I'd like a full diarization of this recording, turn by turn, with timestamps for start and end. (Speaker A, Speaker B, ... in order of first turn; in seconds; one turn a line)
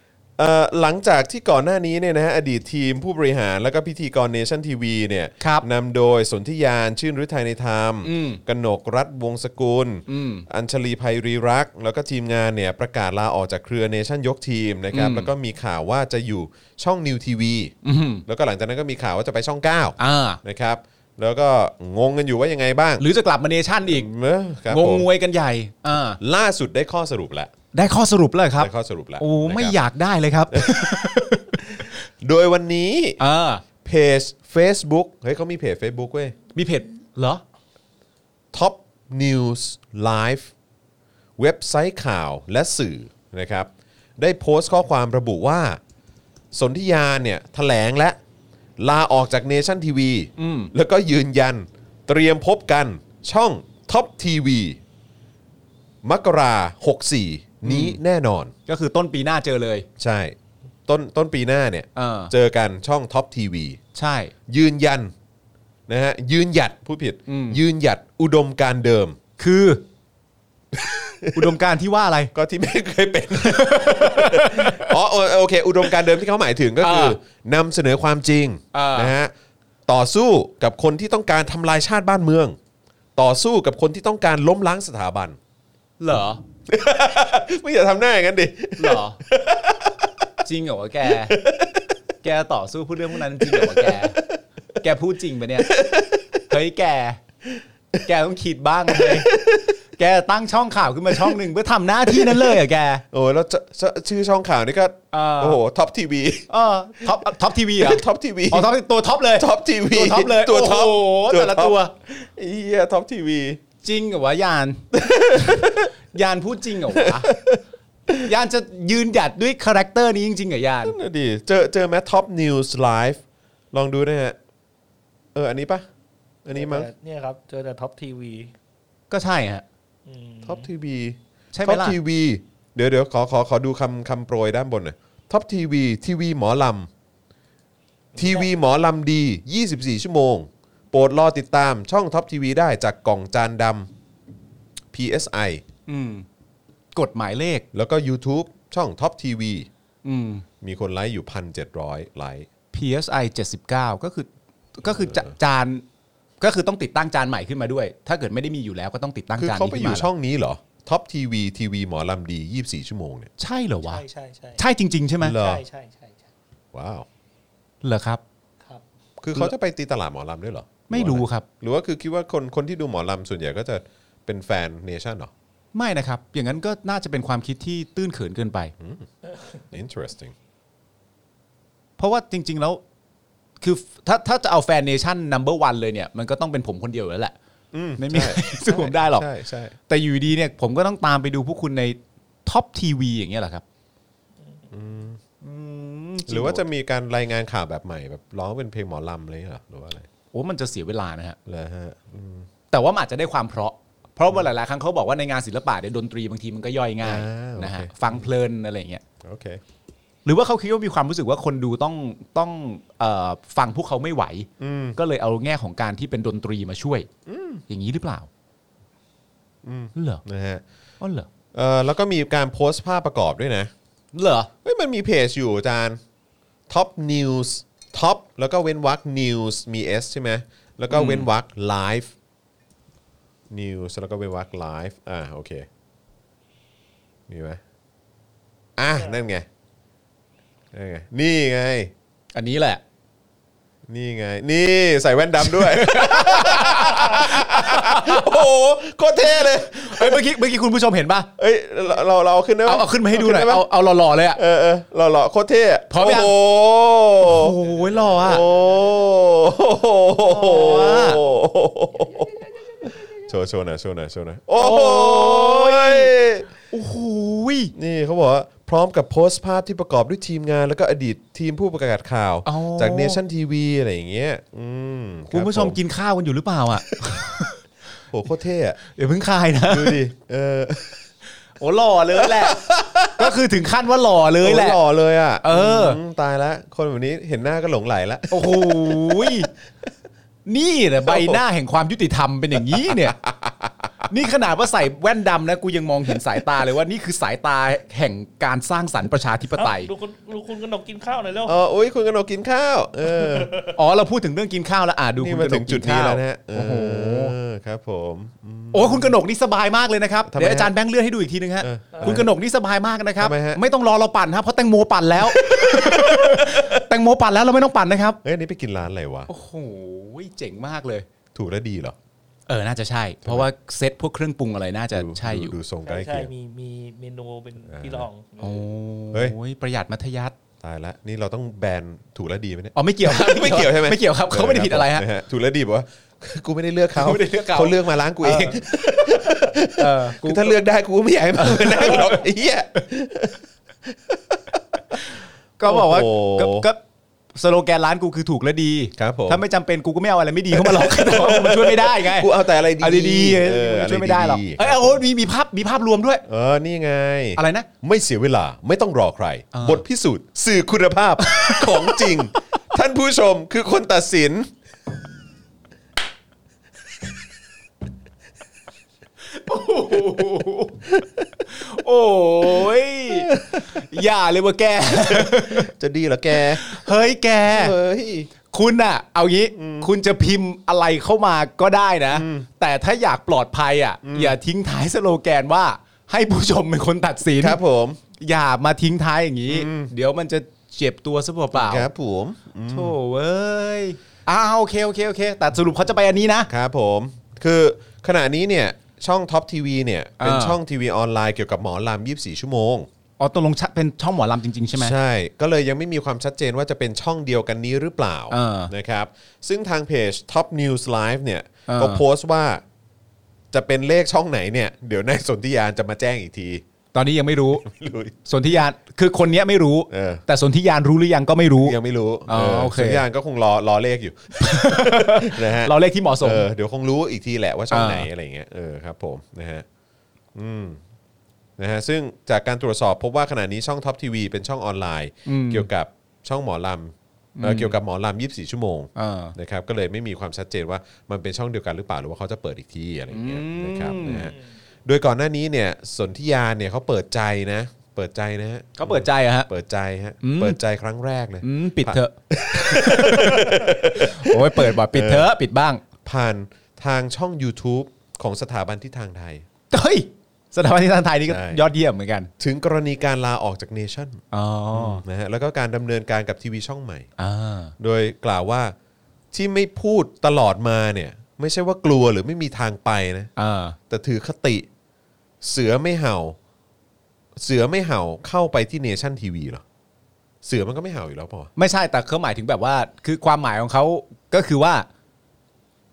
Speaker A: 0.4-17.7
Speaker B: 5.4-5.7
Speaker B: 8.0-8.4
Speaker B: 10.1-10.4
Speaker B: 14.9-15.3
Speaker B: 17.8-18.2
Speaker A: 18.3-23.0
Speaker B: 20.0-20.4
Speaker B: 23.0-24.1
Speaker A: 23.8-25.1
Speaker B: 24.7-26.2
Speaker A: 26.2-27.5
Speaker B: 27.7-31.6
Speaker A: 28.6-29.8
Speaker A: 30.5-33.2
Speaker B: 33.2-33.6
Speaker A: 33.8-36.3
Speaker B: 36.5-37.4
Speaker A: 38.5-40.5
Speaker A: 41.4-45.8
Speaker A: 46.5-48.2
Speaker A: 48.8-54.8
Speaker B: 50.4-50.7
Speaker A: 56.0-58.5
Speaker B: 57.6-58.0
Speaker B: 58.7-59.9
Speaker A: 60.0-63.8
Speaker B: 61.9-62.3
Speaker B: 63.9-64.3
Speaker A: 64.5-65.1
Speaker A: 65.9-69.2
Speaker B: 67.3-67.6
Speaker B: 69.4-69.8
Speaker A: 70.7-71.6
Speaker B: 71.3-72.3
Speaker A: 72.3-79.3
Speaker B: 73.4-74.9
Speaker B: 76.8-77.2
Speaker B: 78.7-79.1
Speaker A: 79.9-82.6
Speaker A: 83.2-85.4
Speaker B: 86.0-86.4
Speaker A: 86.7-90.3
Speaker B: 88.8-89.2
Speaker B: 90.4-91.4
Speaker A: 91.0-91.9
Speaker B: 92.2-94.2
Speaker A: 93.1-94.4
Speaker B: 94.8-95.8
Speaker A: 95.6-96.4
Speaker B: 96.5-97.2
Speaker B: 98.0-99.3
Speaker A: 98.9-99.8
Speaker B: 100.0-103.0
Speaker A: 102.1-102.6
Speaker A: 103.1-106.5
Speaker B: 105.1-105.6
Speaker B: 106.5-111.9
Speaker A: 107.0-108.7
Speaker A: 109.4-113.6
Speaker B: 113.8-117.3
Speaker A: 114.9-115.9
Speaker A: 116.9-118.3
Speaker B: 118.2-120.9
Speaker A: 120.8-124.4
Speaker A: 125.3-125.9
Speaker A: 126.4-126.9
Speaker C: 126.5-128.5
Speaker B: 129.1-129.6
Speaker C: 130.1-130.7
Speaker A: 130.4-136.9
Speaker B: 131.5-132.0
Speaker C: 138.1-138.5
Speaker A: 138.2-143.9
Speaker A: 144.9-145.6
Speaker B: 145.9-146.2
Speaker B: 146.9-147.6
Speaker A: 147.7-149.7
Speaker B: 150.0-150.4
Speaker A: 150.6-152.5
Speaker B: 152.7-155.8
Speaker A: 154.9-155.3
Speaker B: 156.4-160.1
Speaker A: 159.4-163.3
Speaker B: 163.4-164.0
Speaker C: 163.8-164.6
Speaker B: 164.6-165.4
Speaker A: 165.2-165.6
Speaker C: 165.3-166.3
Speaker A: 166.7-167.1
Speaker B: 167.8-168.2
Speaker A: 169.2-175.3
Speaker B: 170.9-171.4
Speaker B: 175.7-178.7
Speaker A: 178.8-179.1
Speaker A: 179.6-180.3
Speaker B: 182.0-182.8
Speaker B: 183.6-187.3
Speaker A: 187.7-189.7
Speaker B: 188.0-189.3
Speaker B: 189.9-193.6
Speaker A: 194.7-195.2
Speaker B: 195.4-196.6
Speaker A: 196.3-200.1
Speaker B: 200.3-201.4
Speaker A: 201.5-202.5
Speaker B: 202.7-209.0
Speaker A: 207.0-208.3
Speaker A: 209.2-209.6
Speaker B: 210.2-217.1
Speaker A: 214.6-215.0
Speaker A: 217.2-217.6
Speaker B: 217.7-218.3
Speaker A: 219.6-220.6
Speaker B: 219.9-220.2
Speaker B: 221.0-221.3
Speaker A: 221.5-223.7
Speaker B: 224.1-224.5
Speaker A: 224.6-226.0
Speaker A: 226.7-232.1
Speaker B: 230.9-231.3
Speaker A: 233.5-235.7
Speaker A: 237.3-237.6
Speaker A: 238.8-239.5
Speaker A: 240.7-241.9
Speaker B: 242.3-242.8
Speaker A: 243.9-250.2
Speaker B: 245.4-248.4
Speaker B: 249.5-251.3
Speaker A: 251.4-253.7
Speaker B: 252.7-254.4
Speaker A: 254.3-257.6
Speaker B: 255.9-256.3
Speaker B: 257.2-258.4
Speaker A: 258.2-266.5
Speaker B: 260.2-261.2
Speaker B: 264.6-266.1
Speaker B: 266.7-267.7
Speaker A: 267.7-275.8
Speaker B: 272.4-273.2
Speaker B: 275.3-277.6
Speaker A: 278.1-278.8
Speaker B: 278.9-280.0
Speaker A: 279.7-281.0
Speaker B: 281.6-282.6
Speaker A: 282.2-283.4
Speaker B: 283.1-284.8
Speaker A: 284.4-289.5
Speaker B: 285.4-286.0
Speaker B: 288.3-289.5
Speaker B: 290.4-293.1
Speaker A: 291.0-291.4
Speaker A: 292.6-293.9
Speaker B: 294.1-299.9
Speaker C: 299.6-301.6
Speaker A: 301.4-303.6
Speaker C: 303.1-303.7
Speaker B: 303.7-307.3
Speaker A: 305.2-309.1
Speaker B: 308.7-318.2
Speaker A: 310.2-310.7
Speaker A: 311.6-312.3
Speaker C: 311.9-312.2
Speaker A: 313.2-313.6
Speaker A: 315.2-316.8
Speaker A: 318.2-319.3
Speaker B: 319.3-321.1
Speaker A: 321.3-321.9
Speaker B: 322.5-325.6
Speaker A: 324.9-326.3
Speaker C: 325.9-328.6
Speaker A: 327.7-328.1
Speaker B: 328.4-330.4
Speaker A: 330.6-345.0
Speaker B: 332.7-335.1
Speaker B: 336.9-338.7
Speaker B: 339.8-340.6
Speaker B: 341.3-342.2
Speaker B: 345.1-346.8
Speaker A: 345.6-346.7
Speaker B: 347.3-356.2
Speaker A: 349.0-349.4
Speaker A: 350.5-355.0
Speaker A: 356.3-364.5
Speaker B: 357.4-357.7
Speaker B: 359.5-359.8
Speaker B: 361.2-362.1
Speaker B: 369.3-370.9
Speaker B: 371.4-375.7
Speaker A: 372.6-373.8
Speaker A: 375.1-376.8
Speaker B: 376.3-377.8
Speaker A: 377.5-378.3
Speaker B: 378.5-387.6
Speaker A: 379.6-379.9
Speaker A: 382.1-382.5
Speaker A: 384.0-384.4
Speaker A: 387.4-388.0
Speaker B: 388.2-391.9
Speaker A: 389.5-389.9
Speaker A: 391.5-392.9
Speaker B: 392.7-396.5
Speaker A: 396.5-402.9
Speaker B: 400.2-400.6
Speaker B: 403.2-404.9
Speaker A: 404.8-412.6
Speaker B: 408.3-408.7
Speaker B: 411.7-412.0
Speaker A: 413.5-416.6
Speaker B: 416.9-417.6
Speaker A: 417.6-418.2
Speaker B: 418.2-421.8
Speaker A: 419.9-420.2
Speaker A: 421.6-429.6
Speaker B: 422.3-423.0
Speaker B: 424.4-426.5
Speaker B: 427.7-428.1
Speaker A: 430.3-430.8
Speaker A: 431.6-455.3
Speaker B: 435.2-435.7
Speaker B: 437.4-437.8
Speaker B: 438.9-439.3
Speaker B: 443.1-444.3
Speaker B: 448.8-449.5
Speaker B: 450.2-450.6
Speaker B: 451.4-455.8
Speaker A: 456.0-459.4
Speaker B: 459.7-462.3
Speaker A: 461.2-461.6
Speaker A: 462.4-467.1
Speaker B: 464.3-465.0
Speaker B: 467.2-467.7
Speaker A: 467.8-468.7
Speaker A: 469.3-473.3
Speaker B: 473.4-473.8
Speaker A: 473.9-474.7
Speaker A: 475.4-476.4
Speaker A: 477.4-479.6
Speaker A: 480.4-481.5
Speaker B: 481.6-484.9